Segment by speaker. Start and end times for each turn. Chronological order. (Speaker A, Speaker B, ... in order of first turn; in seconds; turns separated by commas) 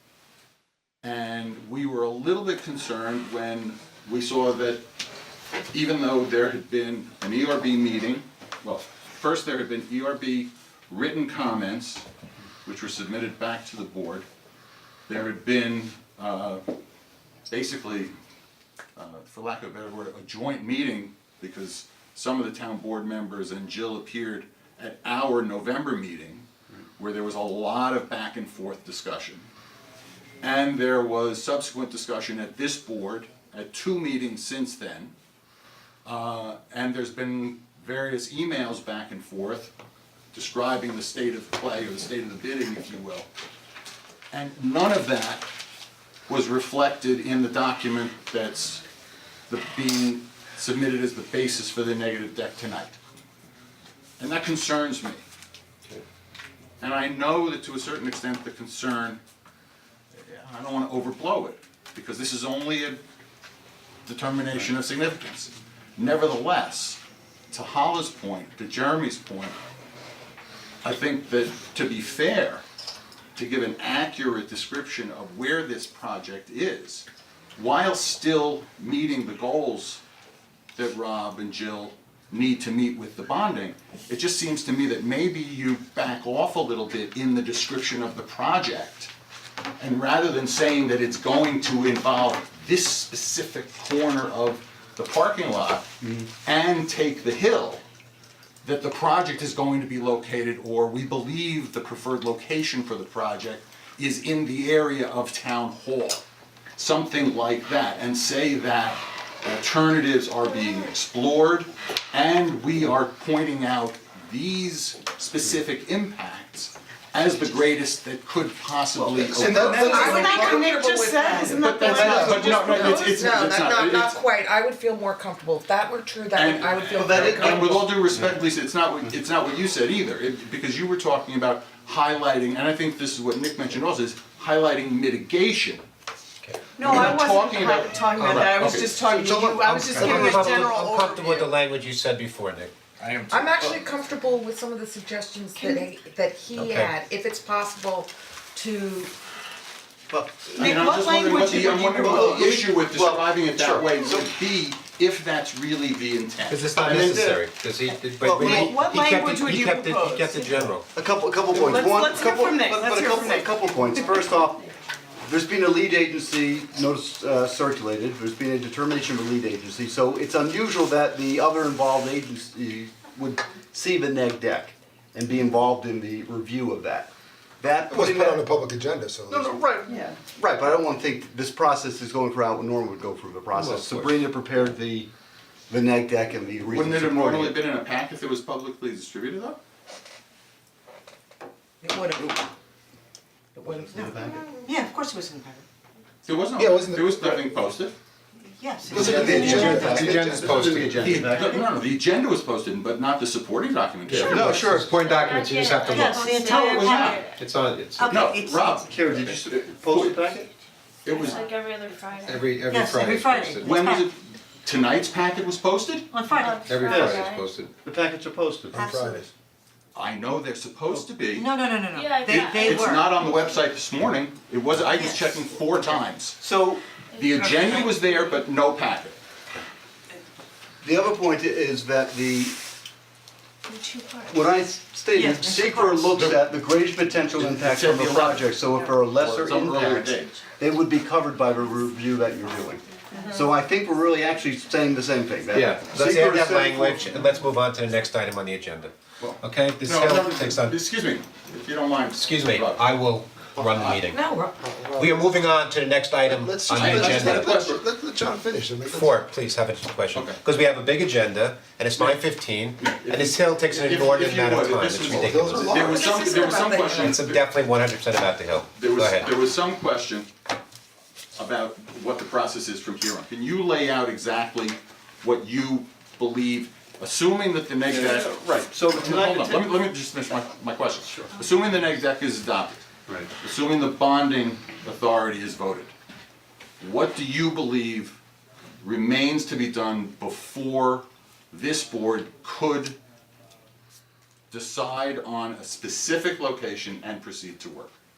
Speaker A: 1.0-4.8, Speaker A: 5.7-12.1, Speaker A: 12.7-14.3, Speaker A: 15.1-16.6, Speaker A: 17.5-18.1, Speaker A: 19.0-29.5, Speaker A: 30.4-35.1, Speaker A: 36.0-39.7, Speaker A: 40.3-43.3, Speaker A: 44.3-45.5, Speaker A: 46.3-48.8, Speaker A: 49.5-53.0, Speaker A: 54.2-55.2, Speaker A: 56.8-59.2, Speaker A: 60.2-63.0, Speaker A: 64.1-67.0, Speaker A: 67.5-69.6, Speaker A: 70.8-72.6, Speaker A: 73.3-80.0, Speaker A: 80.8-89.1, Speaker A: 89.8-97.8, Speaker B: 96.0-96.3, Speaker A: 98.6-106.2, Speaker A: 106.8-120.4, Speaker B: 118.9-120.7, Speaker C: 119.4-120.2, Speaker D: 119.4-123.2, Speaker E: 119.8-121.7, Speaker A: 121.5-124.2, Speaker C: 121.9-122.9, Speaker E: 122.3-127.8, Speaker A: 126.3-135.8, Speaker B: 127.0-128.3, Speaker F: 136.4-137.2, Speaker D: 136.8-141.5, Speaker A: 136.8-138.9, Speaker F: 138.2-142.7, Speaker B: 139.2-140.7, Speaker A: 143.0-143.7, Speaker E: 143.3-149.1, Speaker D: 145.6-145.9, Speaker F: 146.6-146.9, Speaker B: 150.1-150.8, Speaker D: 150.6-152.6, Speaker A: 150.6-157.4, Speaker B: 152.1-154.3, Speaker F: 156.5-160.9, Speaker B: 158.2-158.8, Speaker D: 158.3-160.6, Speaker B: 160.9-164.7, Speaker D: 161.5-164.5, Speaker B: 165.2-178.6, Speaker C: 177.9-179.7, Speaker B: 179.3-185.1, Speaker D: 179.9-180.2, Speaker C: 183.5-184.1, Speaker B: 185.7-187.6, Speaker A: 186.7-189.6, Speaker E: 191.8-192.4, Speaker E: 193.6-194.4, Speaker B: 193.6-194.5, Speaker D: 193.9-195.7, Speaker A: 196.2-198.0, Speaker C: 196.6-197.4, Speaker D: 198.6-199.9, Speaker C: 198.9-200.8, Speaker F: 198.9-201.2, Speaker B: 199.0-201.6, Speaker A: 199.0-199.6, Speaker A: 201.0-204.6, Speaker D: 201.4-201.7, Speaker C: 204.1-204.4, Speaker F: 204.1-206.3, Speaker B: 204.2-204.9, Speaker G: 204.9-207.4, Speaker D: 205.9-207.2, Speaker A: 206.4-207.2, Speaker F: 207.2-208.3, Speaker D: 208.0-208.9, Speaker A: 208.1-210.4, Speaker B: 208.9-210.5, Speaker A: 211.0-211.5, Speaker G: 211.1-212.5, Speaker F: 212.2-213.8, Speaker D: 212.7-214.1, Speaker A: 213.6-216.1, Speaker D: 216.2-216.6, Speaker G: 216.3-217.5, Speaker F: 216.7-217.7, Speaker B: 216.8-217.3, Speaker B: 217.8-218.9, Speaker C: 218.7-219.3, Speaker D: 218.8-219.1, Speaker A: 219.9-221.5, Speaker D: 221.4-223.0, Speaker G: 221.9-223.6, Speaker A: 222.3-226.4, Speaker D: 225.0-225.4, Speaker B: 226.4-226.8, Speaker G: 227.1-228.3, Speaker A: 227.2-229.2, Speaker B: 230.8-232.6, Speaker D: 234.0-234.4, Speaker B: 234.3-247.3, Speaker D: 235.1-236.2, Speaker A: 236.1-236.4, Speaker A: 237.3-240.3, Speaker G: 242.9-243.3, Speaker D: 243.1-243.4, Speaker F: 245.5-250.8, Speaker A: 249.2-252.9, Speaker F: 252.1-254.3, Speaker E: 254.1-254.5, Speaker C: 254.6-255.3, Speaker F: 254.9-257.6, Speaker C: 256.2-259.2, Speaker A: 256.7-257.9, Speaker F: 258.9-265.9, Speaker A: 260.1-260.4, Speaker A: 262.8-267.4, Speaker C: 265.1-266.1, Speaker E: 265.7-267.1, Speaker F: 266.9-269.3, Speaker A: 268.8-270.3, Speaker A: 271.4-285.9, Speaker B: 277.9-279.8, Speaker A: 286.8-288.2, Speaker A: 288.8-293.0, Speaker A: 294.5-297.9